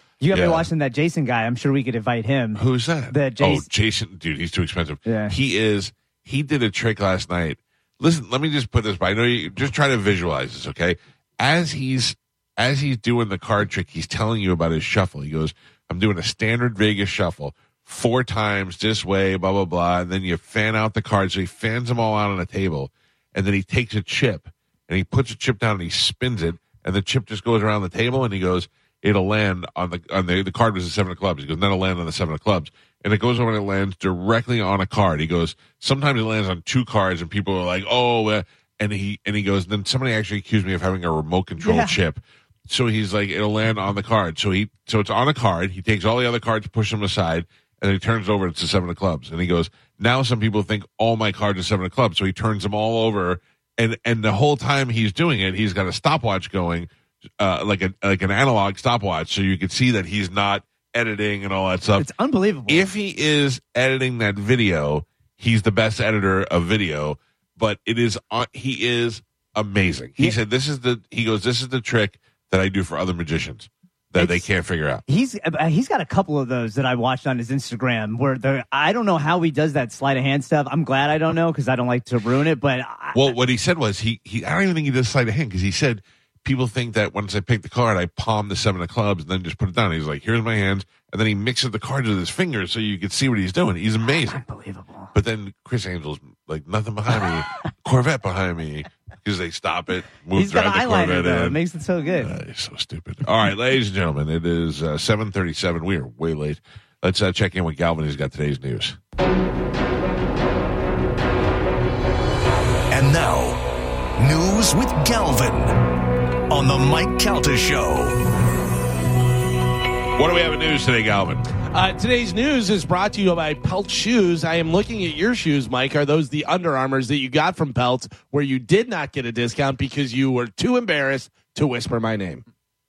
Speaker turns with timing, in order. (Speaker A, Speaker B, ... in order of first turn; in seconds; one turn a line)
Speaker A: 0.2-3.7
Speaker B: 0.3-0.7
Speaker B: 2.5-62.1
Speaker A: 5.1-5.3
Speaker A: 41.6-42.0
Speaker A: 62.0-62.9
Speaker B: 62.7-75.0
Speaker A: 74.2-74.5
Speaker A: 75.1-83.3
Speaker B: 83.1-94.4
Speaker A: 94.1-95.1
Speaker B: 95.1-101.6
Speaker A: 97.2-97.7
Speaker A: 100.3-102.3
Speaker B: 102.2-109.0
Speaker C: 112.9-115.9
Speaker C: 116.5-118.2
Speaker B: 120.2-121.5
Speaker D: 121.7-132.4